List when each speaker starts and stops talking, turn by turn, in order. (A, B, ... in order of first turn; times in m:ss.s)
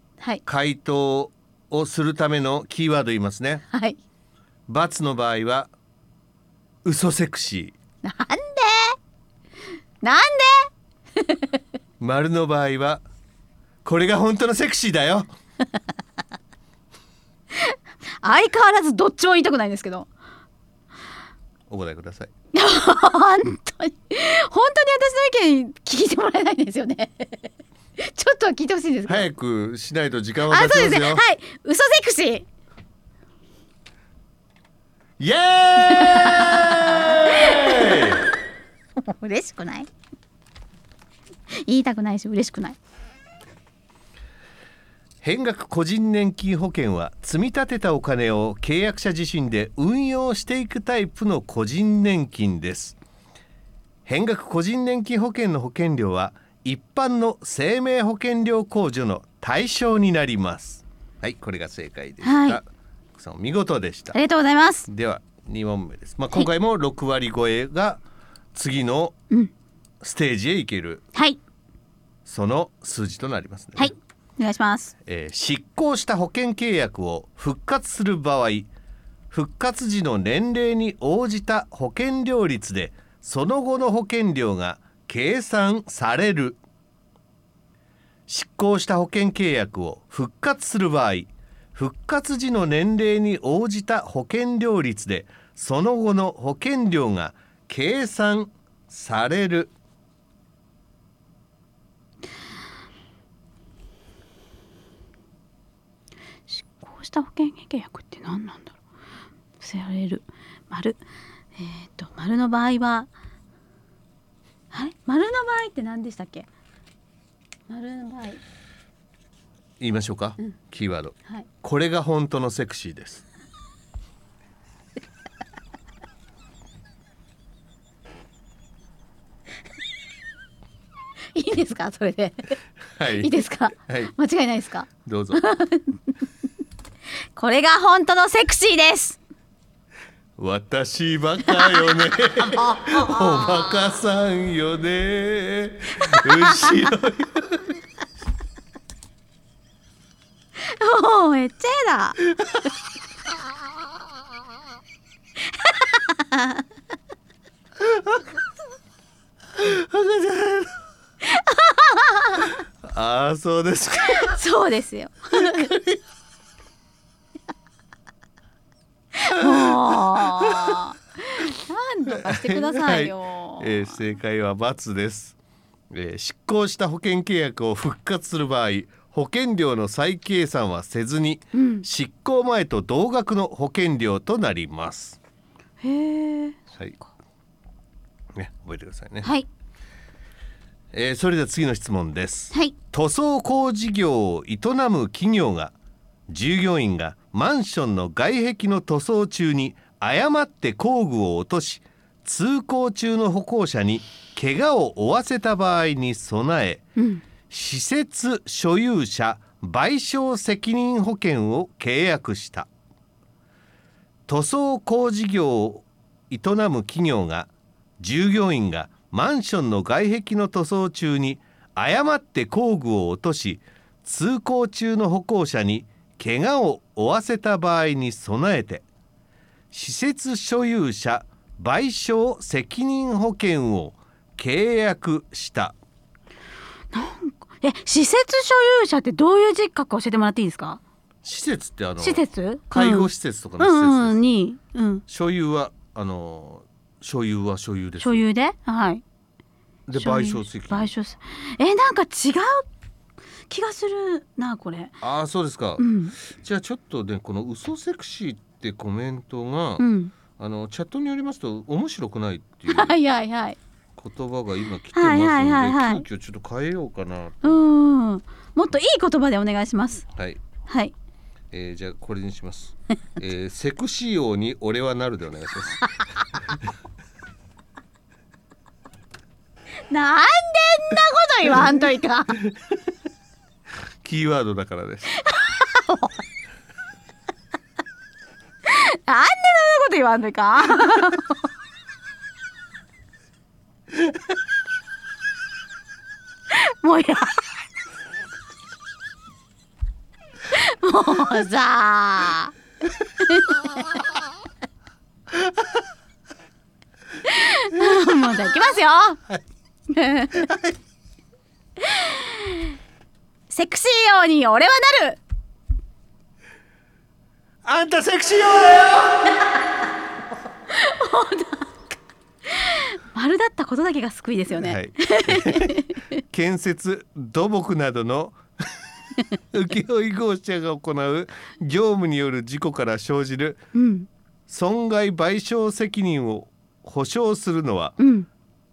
0:00.4-0:03.6 A
0:03.7-0:04.0 B
0:04.7-0:05.7 A
0:06.8-0:07.7 A
0:08.0-0:09.0 B
0:10.0-0:11.6 B
0:12.0-0:13.0 A
0:13.8-0:15.3 A
0:17.5-0:20.1 B
0:21.7-0:22.3 A
0:22.5-0:29.3 B
0:29.1-0:31.2 A
0:30.5-0:32.5 B
0:35.2-0:38.2 A
0:35.9-0:38.2 B
0:39.0-0:39.9 B
0:41.5-0:42.8 B
0:45.2-0:53.0 A
0:54.0-1:04.2 A
1:02.2-1:02.6 B
1:04.1-1:04.9 B
1:04.9-1:08.0 A
1:08.5-1:09.1 A
1:10.0-1:11.0 A
1:11.1-1:11.4 B
1:12.2-1:13.9 A
1:13.8-1:14.9 B
1:15.0-1:18.7 A
1:19.3-1:26.6 A
1:28.3-1:39.7 A
1:46.5-1:48.7 B
1:49.6-1:51.0 B
1:51.5-1:53.1 B
1:54.7-1:56.5 B
1:57.7-1:58.4 B
1:59.8-2:03.2 A
2:11.3-2:12.6 B
2:13.0-2:14.1 A
2:13.2-2:16.1 B
2:15.0-2:15.4 A
2:17.3-2:19.2 B
2:20.4-2:27.6 A
2:21.5-2:23.3 B
2:26.0-2:26.8 B
2:30.6-2:32.2 B
2:35.5-2:36.6 B
2:37.8-2:38.2 A
2:39.6-2:40.8 A
2:41.2-2:42.6 B
2:42.8-2:44.4 A
2:44.0-2:45.7 B
2:45.4-2:46.0 A
2:49.1-2:53.9 B
2:49.3-2:50.8 A
2:52.1-2:55.3 A
2:55.9-3:05.2 A
3:01.5-3:01.8 B
3:05.8-3:07.0 B
3:08.3-3:09.3 A
3:10.9-3:15.7 A
3:16.3-3:26.8 A
3:27.0-3:27.2 B
3:27.5-3:32.7 A
3:34.3-3:48.8 A
3:49.7-3:55.7 A
3:56.9-4:00.8 B
4:01.2-4:04.2 A
4:02.0-4:05.0 B
4:05.1-4:08.2 A
4:08.0-4:09.0 B
4:09.9-4:10.9 A
4:10.0-4:12.7 B
4:13.5-4:15.0 B
4:15.0-4:19.8 A
4:15.8-4:16.1 B
4:19.8-4:20.1 B
4:20.4-4:22.9 A
4:22.7-4:23.6 B
4:24.0-4:27.6 A
4:24.9-4:26.0 B
4:27.4-4:30.0 B
4:30.7-4:30.9 B
4:31.5-4:35.8 A
4:39.9-4:42.4 B
4:44.0-4:45.2 A
4:45.2-4:46.2 B
4:48.6-4:51.4 B
4:56.5-4:57.4 B
5:00.4-5:02.5 B
5:03.2-5:03.8 B
5:07.2-5:09.2 B
5:09.9-5:10.5 B
5:10.4-5:10.7 A
5:11.8-5:12.7 B
5:13.5-5:15.2 B
5:17.6-5:19.3 A
5:20.7-5:21.8 B
5:22.5-5:25.9 B
5:24.6-5:28.4 A
5:29.5-5:33.6 A
5:33.7-5:34.1 B
5:34.5-5:38.0 A
5:38.0-5:38.3 B